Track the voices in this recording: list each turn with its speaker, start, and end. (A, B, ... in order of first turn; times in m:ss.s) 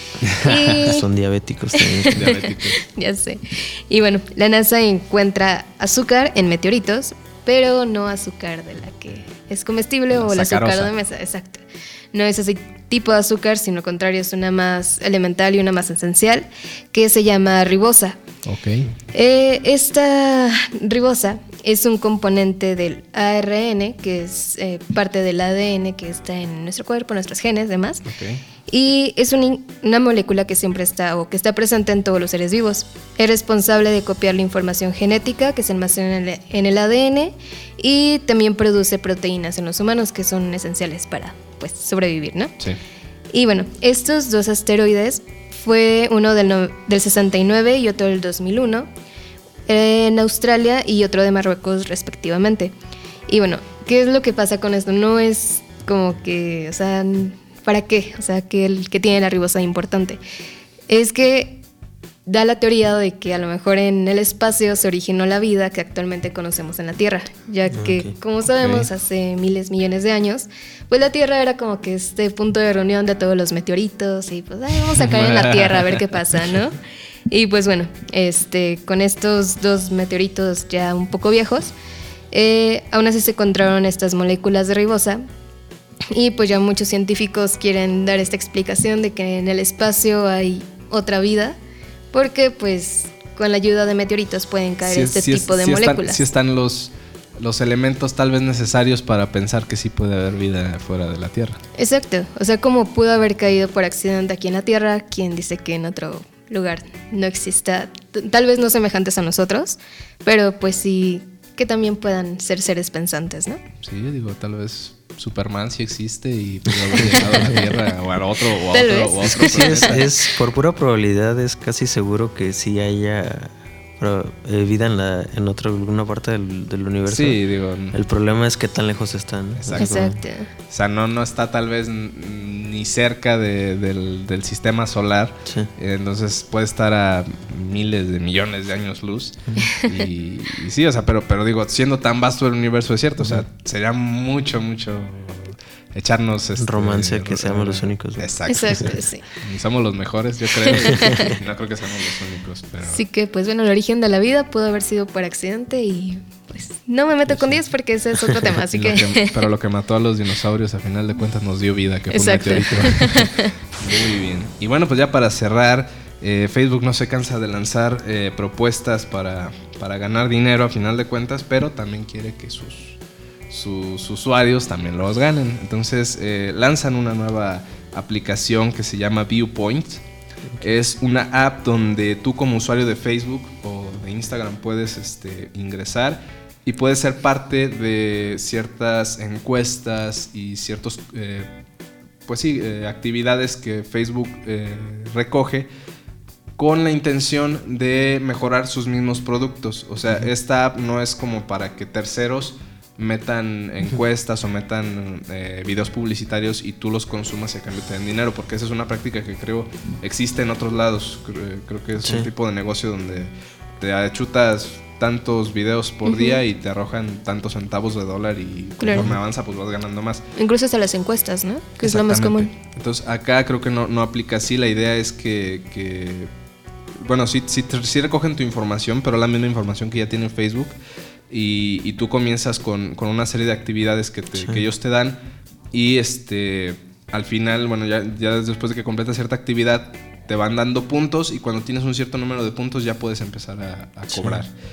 0:00.2-0:00.8 A
0:00.4-0:01.0 B
0:00.7-0:02.3 C
0:01.7-0:18.2 B
0:02.1-0:02.8 A
0:10.1-0:10.9 A
0:18.4-0:18.9 A
0:19.1-0:28.0 B
0:28.0-0:28.4 A
0:28.7-0:42.5 B
0:43.3-0:48.9 B
0:49.7-0:52.7 B
0:53.3-1:00.2 B
1:00.9-1:01.6 B
1:02.2-1:16.8 B
1:07.7-1:08.1 C
1:08.6-1:08.9 A
1:15.0-1:16.0 A
1:17.3-1:21.7 B
1:22.3-1:25.2 B
1:26.1-1:31.6 B
1:32.1-1:36.2 B
1:34.8-1:41.6 A
1:41.8-1:53.6 B
1:53.8-2:00.1 A
1:56.9-1:57.6 C
1:58.7-2:00.0 B
1:59.2-2:07.4 C
2:07.1-2:08.0 A
2:07.9-2:10.2 C
2:09.6-2:10.1 A
2:09.8-2:10.5 B
2:10.7-2:33.0 A
2:23.2-2:23.4 C
2:26.6-2:28.9 C
2:28.5-2:29.3 B
2:30.7-2:31.3 B
2:30.9-2:31.3 C
2:32.8-2:39.3 B
2:38.7-2:53.0 A
2:42.1-2:43.5 B
2:53.5-3:00.0 A
3:00.6-3:11.5 A
3:12.2-3:15.7 A
3:16.6-3:40.2 A
3:32.0-3:32.3 C
3:36.0-3:36.4 B
3:38.8-3:39.1 B
3:40.4-3:42.5 B
3:41.8-3:46.3 A
3:47.0-3:50.8 A
3:51.3-3:55.2 A
3:54.4-3:54.7 C
3:55.7-4:04.5 A
4:04.1-4:04.4 C